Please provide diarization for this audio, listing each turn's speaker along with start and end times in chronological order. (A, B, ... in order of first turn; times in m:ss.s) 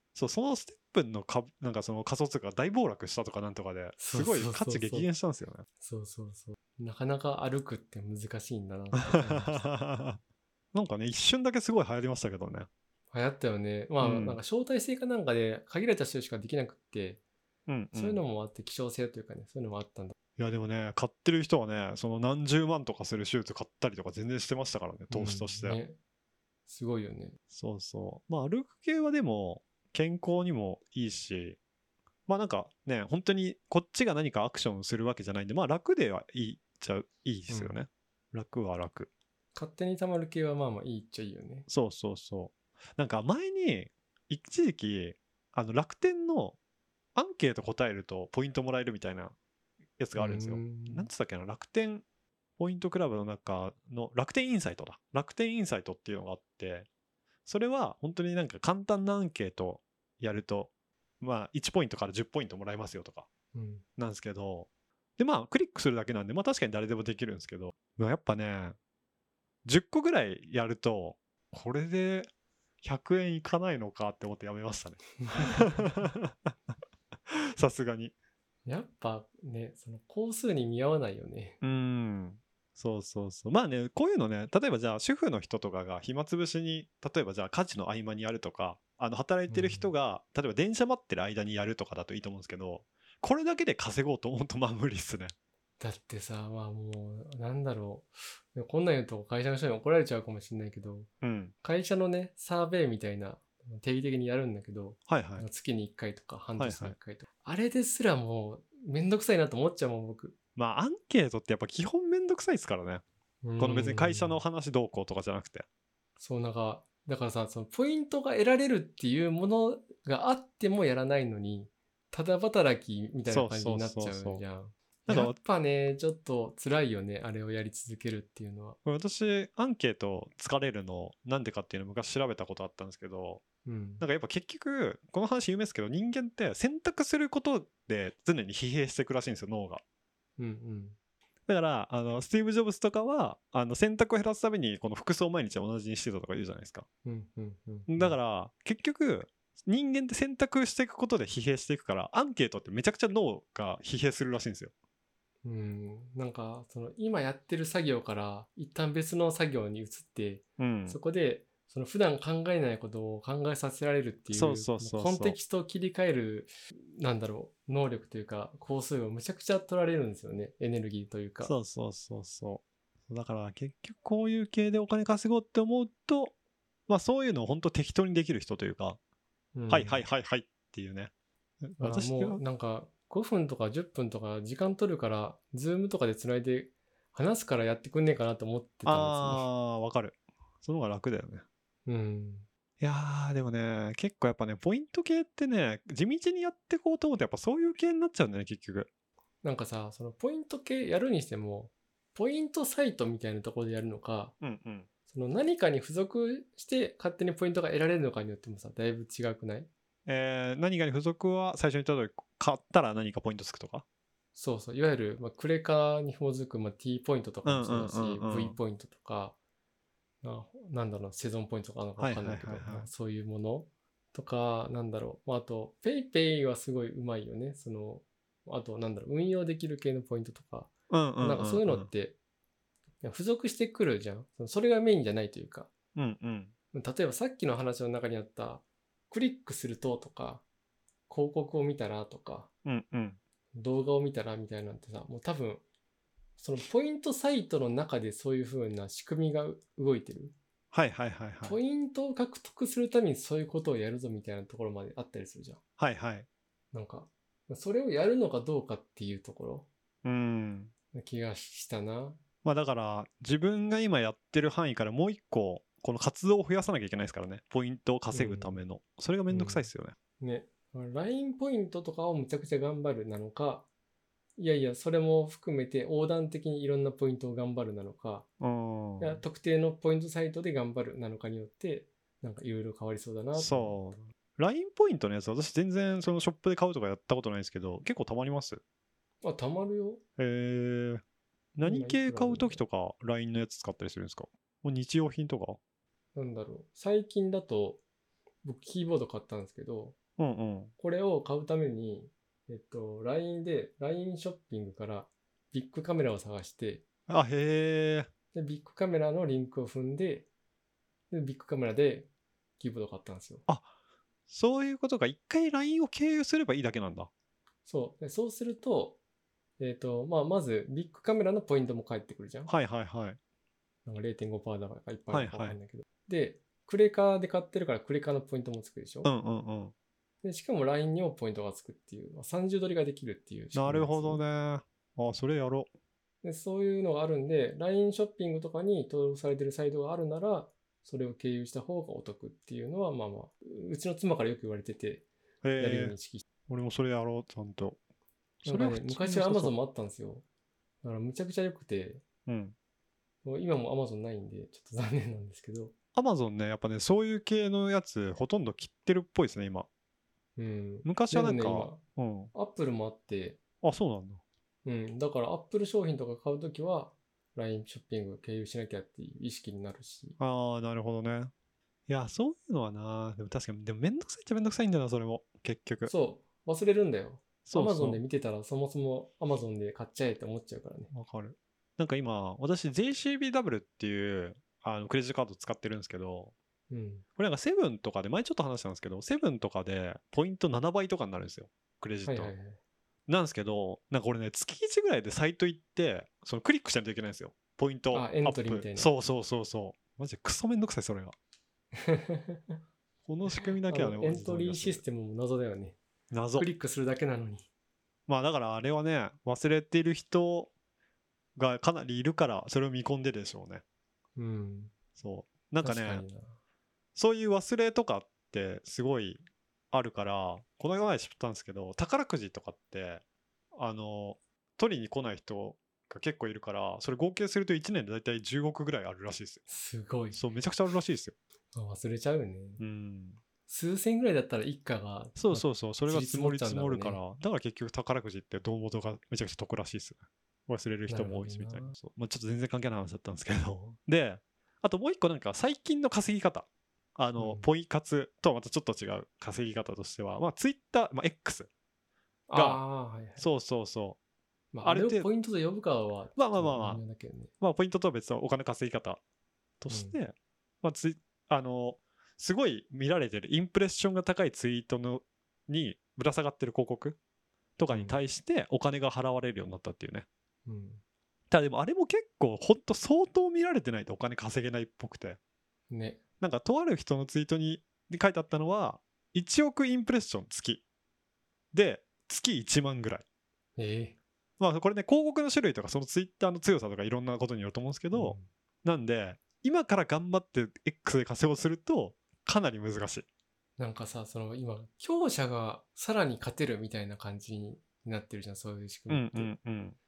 0:00.2-0:05.7 A
0:04.0-0:05.1 B
0:05.8-0:09.6 B
0:09.0-0:10.2 A
0:10.7-0:12.7 A
0:13.1-0:17.2 B
0:14.0-0:14.4 A
0:17.7-0:18.2 A
0:17.9-0:20.2 B
0:20.4-0:25.8 A
0:25.1-0:26.0 B
0:26.7-0:27.4 B
0:27.5-0:31.6 A
0:32.3-0:39.1 A
0:37.5-0:37.8 B
0:39.6-0:41.7 B
0:41.7-0:46.6 A
0:47.2-0:49.4 A
0:50.0-0:52.0 A
0:50.2-0:51.1 B
0:52.6-0:56.9 A
0:57.5-1:03.3 A
1:03.5-1:03.8 B
1:04.0-1:08.8 A
1:09.6-1:12.3 A
1:12.8-1:16.5 A
1:15.3-1:16.0 B
1:17.3-1:18.1 A
1:18.7-1:21.6 B
1:21.6-1:35.3 A
1:29.5-1:29.9 B
1:35.8-1:41.1 B
1:41.2-1:41.5 A
1:41.6-1:50.4 B
1:45.1-1:45.4 A
1:46.6-1:47.0 A
1:50.6-1:53.0 A
1:53.4-1:54.4 B
1:53.6-1:55.7 A
1:56.2-2:08.8 B
2:03.3-2:04.4 A
2:05.1-2:05.4 A
2:08.8-2:13.4 A
2:13.6-2:14.0 B
2:14.0-2:19.8 A
2:20.4-2:21.0 B
2:21.5-2:26.9 A
2:27.0-2:28.2 B
2:27.9-2:34.7 A
2:35.4-2:51.5 B
2:40.6-2:41.0 A
2:44.3-2:45.4 A
2:51.4-2:56.3 A
2:56.9-2:59.0 A
2:59.6-3:00.0 B
2:59.7-3:01.1 A
3:01.6-3:02.4 A
3:01.8-3:09.5 B
3:08.9-3:11.4 A
3:11.9-3:12.5 B
3:12.8-3:18.9 A
3:19.4-3:24.4 B
3:24.4-3:24.9 A
3:25.1-3:29.7 B
3:30.1-3:33.8 A
3:34.4-3:39.4 B
3:37.4-3:38.6 A
3:40.2-3:52.2 B
3:42.0-3:42.9 A
3:50.9-3:51.9 A
3:53.0-3:55.7 B
3:56.0-3:56.5 A
3:56.7-4:00.4 B
4:01.1-4:02.5 B
4:02.6-4:03.2 A
4:03.6-4:05.6 B
4:06.4-4:10.4 B
4:10.7-4:11.6 A
4:11.4-4:15.6 B
4:15.8-4:16.3 A
4:16.7-4:19.7 B
4:20.0-4:20.7 A
4:20.9-4:22.2 B
4:22.4-4:30.0 A
4:28.1-4:28.6 B
4:29.3-4:29.7 B
4:30.2-4:33.7 B
4:34.4-4:38.3 B
4:38.4-4:39.2 A
4:39.0-4:43.8 B
4:43.4-4:48.6 A
4:49.2-4:50.0 B
4:50.2-4:51.0 A
4:51.6-4:55.6 A
4:51.6-4:52.6 B
4:56.2-4:57.8 B
4:58.4-5:00.0 B
5:00.2-5:00.7 A
5:00.8-5:06.8 B
5:07.1-5:08.1 A
5:08.3-5:10.3 B
5:11.1-5:13.4 B
5:14.3-5:17.1 A
5:17.7-5:19.0 B
5:19.6-5:22.5 B
5:22.5-5:23.2 A
5:23.8-5:29.1 B
5:25.1-5:25.6 A
5:29.0-5:29.7 A
5:30.2-5:34.2 B
5:33.5-5:35.7 A
5:36.2-5:45.1 B
5:45.4-5:46.0 A
5:45.6-5:46.2 B
5:46.5-5:47.8 A
5:48.4-5:49.5 A
5:48.4-5:50.2 B
5:50.8-5:52.0 B
5:52.3-5:52.6 A
5:53.2-5:55.7 B
5:56.0-5:59.7 A
6:00.4-6:01.8 B
6:00.8-6:02.3 A
6:02.3-6:03.4 B
6:03.6-6:04.2 A
6:04.6-6:10.2 B
6:10.2-6:11.3 A
6:11.9-6:15.9 A
6:15.8-6:20.9 B
6:17.5-6:18.0 A
6:20.9-6:26.3 A
6:26.7-6:27.0 B
6:27.2-6:32.3 A
6:32.1-6:32.6 B
6:33.1-6:41.2 A
6:37.9-6:38.9 B
6:41.8-6:42.6 B
6:43.1-6:44.8 A
6:43.7-6:45.8 B
6:46.1-6:46.5 A
6:46.4-6:47.5 B
6:48.1-6:50.5 A
6:51.4-6:53.6 A
6:54.2-6:54.7 B
6:55.0-6:56.0 A
6:55.6-6:56.3 B
6:57.0-7:03.0 A
7:03.5-7:09.4 A
7:09.5-7:10.2 B
7:10.1-7:11.2 A
7:11.5-7:12.6 B
7:12.6-7:13.2 A
7:13.5-7:17.0 B
7:15.2-7:31.5 A
7:20.9-7:21.8 B
7:27.2-7:27.4 B
7:32.3-7:33.2 B
7:32.3-7:32.6 A
7:33.2-7:34.0 A
7:34.5-7:37.3 B
7:34.6-7:35.1 A
7:36.2-7:36.8 A
7:37.4-7:39.0 A
7:39.6-7:47.0 A
7:39.7-7:40.0 B
7:47.6-7:50.1 A
7:47.7-7:48.0 B
7:50.5-7:50.8 B
7:51.3-7:55.2 A
7:55.7-7:56.0 B
7:56.2-8:00.6 A
8:01.5-8:03.0 A
8:03.6-8:04.0 B
8:04.4-8:13.1 A
8:07.9-8:08.3 B
8:13.6-8:19.3 B
8:18.9-8:19.8 A